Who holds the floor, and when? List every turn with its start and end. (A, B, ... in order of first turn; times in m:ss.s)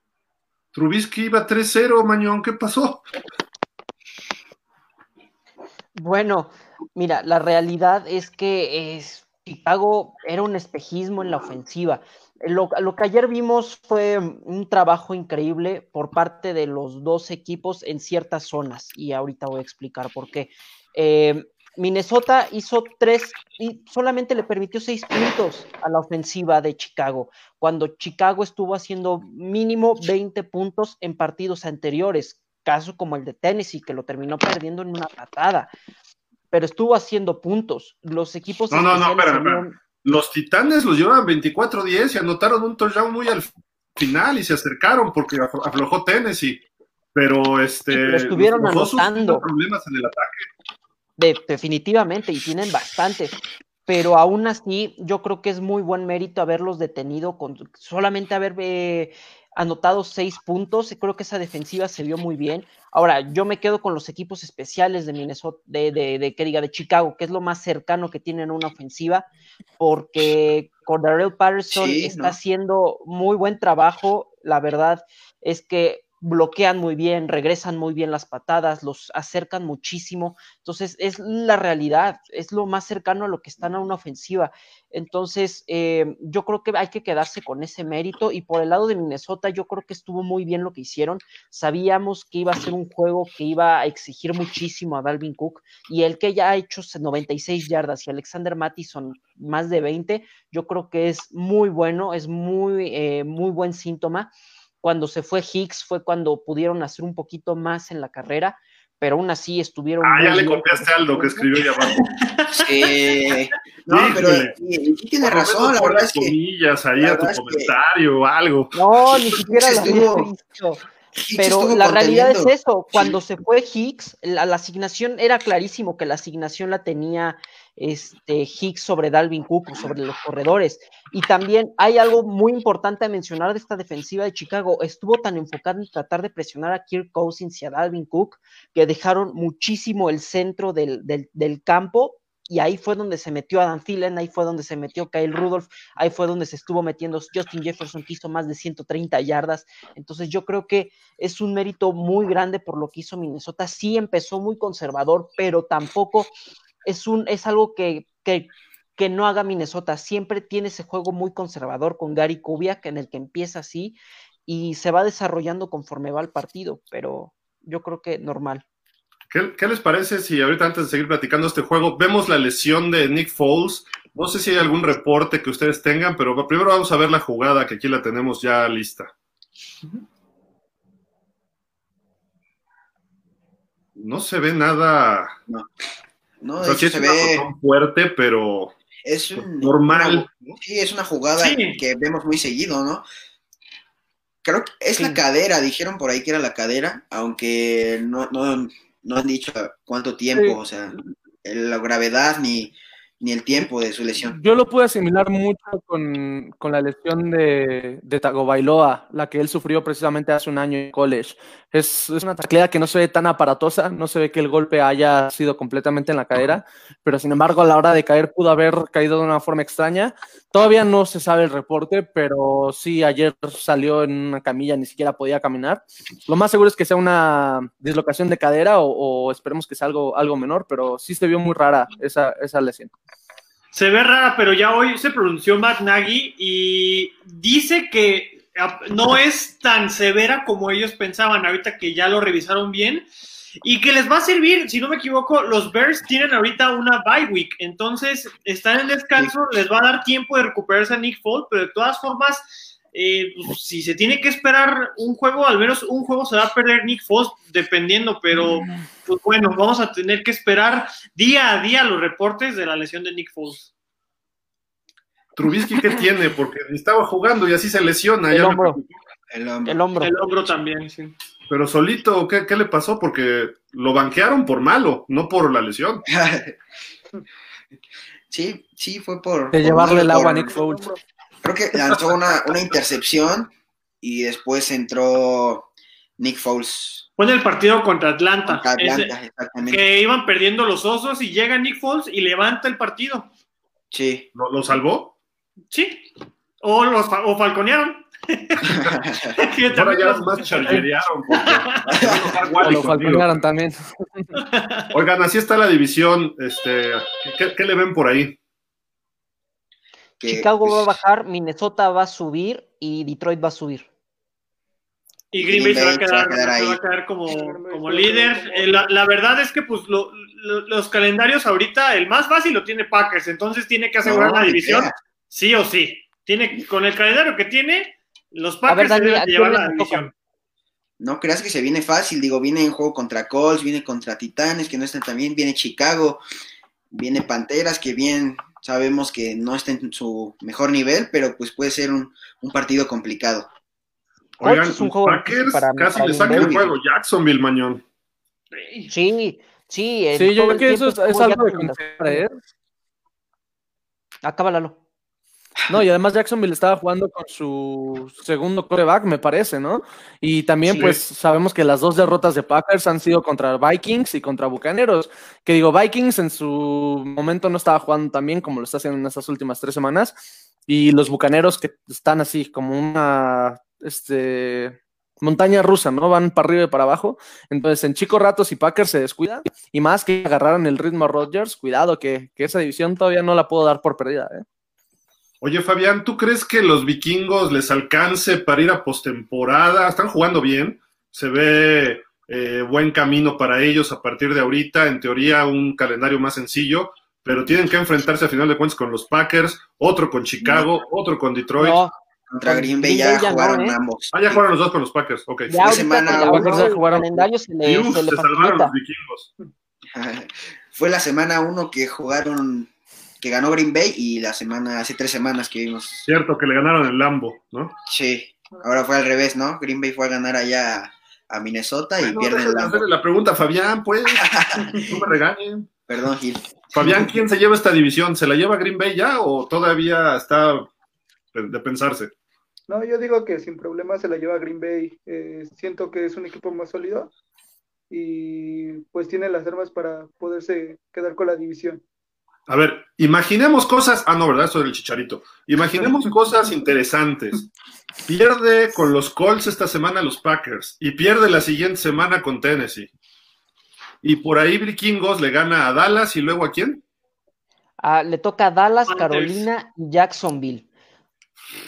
0:00.7-0:03.0 A
0:06.0-0:35.7 B
0:36.5-0:39.8 B
0:38.7-0:46.6 A
0:47.1-0:50.4 A
0:47.9-0:49.4 B
0:51.2-1:09.2 B
1:09.8-1:44.3 B
1:11.7-1:12.4 C
1:44.8-1:51.5 B
1:50.0-1:52.0 A
1:52.1-1:52.9 D
1:52.5-1:56.3 C
1:53.9-1:54.5 A
1:55.2-1:58.7 A
1:57.0-1:57.7 C
1:58.7-2:00.8 B
1:59.5-2:00.3 C
2:01.1-2:03.1 C
2:01.3-2:36.3 B
2:36.8-2:44.0 B
2:44.5-2:48.6 B
2:49.3-2:59.1 A
3:04.0-3:05.3 A
3:06.4-3:07.4 C
3:06.6-3:08.7 A
3:09.0-3:13.0 C
3:09.3-3:10.6 A
3:11.4-3:11.8 D
3:14.4-3:24.4 C
3:24.3-3:52.9 E
3:53.7-4:03.1 D
4:03.6-4:23.7 D
4:25.4-4:28.9 A
4:28.3-4:28.8 B
4:29.3-4:29.8 C
4:29.6-4:30.1 B
4:30.0-4:31.1 D
4:31.5-4:36.0 A
4:36.1-4:36.6 C
4:38.3-4:40.5 C
4:39.5-4:40.9 E
4:40.2-4:41.0 F
4:41.4-4:43.5 C
4:44.0-4:45.7 C
4:46.2-4:47.0 C
4:47.2-4:49.1 D
4:48.4-4:49.8 C
4:49.6-4:53.3 D
4:53.9-4:54.2 C
4:54.3-4:55.1 A
4:55.7-4:56.0 D
4:56.6-4:58.7 D
4:58.6-4:59.4 C
4:59.4-5:01.9 D
4:59.7-5:03.3 A
5:01.9-5:02.5 C
5:02.6-5:04.3 E
5:04.3-5:04.9 D
5:04.9-5:08.4 A
5:10.2-5:11.0 C
5:10.2-5:13.9 B
5:15.3-5:30.1 D
5:15.4-5:16.8 C
5:17.3-5:18.9 F
5:24.0-5:24.9 C
5:28.7-5:30.1 B
5:31.0-5:36.2 C
5:36.9-5:43.5 C
5:44.4-5:47.8 A
5:44.4-5:46.6 B
5:46.3-5:46.7 C
5:48.5-5:48.9 D
5:48.9-5:52.2 B
5:50.1-5:52.4 E
5:54.2-5:54.8 B
5:55.7-6:24.4 E
6:00.6-6:01.0 B
6:25.4-6:41.8 A
6:41.6-6:41.9 B
6:42.3-6:44.4 C
6:42.4-6:43.8 B
6:44.1-6:45.8 A
6:45.5-6:48.7 B
6:45.6-6:46.6 C
6:46.1-6:47.3 E
6:47.6-6:49.3 A
6:49.9-6:52.7 C
6:53.2-6:56.0 C
6:56.0-6:57.7 A
6:57.9-7:02.8 C
7:02.0-7:04.2 A
7:04.1-7:04.9 C
7:04.9-7:05.7 A
7:05.9-7:07.1 C
7:06.7-7:10.7 A
7:11.3-7:12.1 A
7:12.7-7:17.1 F
7:17.9-7:21.8 F
7:22.5-7:27.5 A
7:28.1-7:32.9 A
7:34.0-7:36.8 A
7:37.8-7:40.6 B
7:38.9-7:39.5 D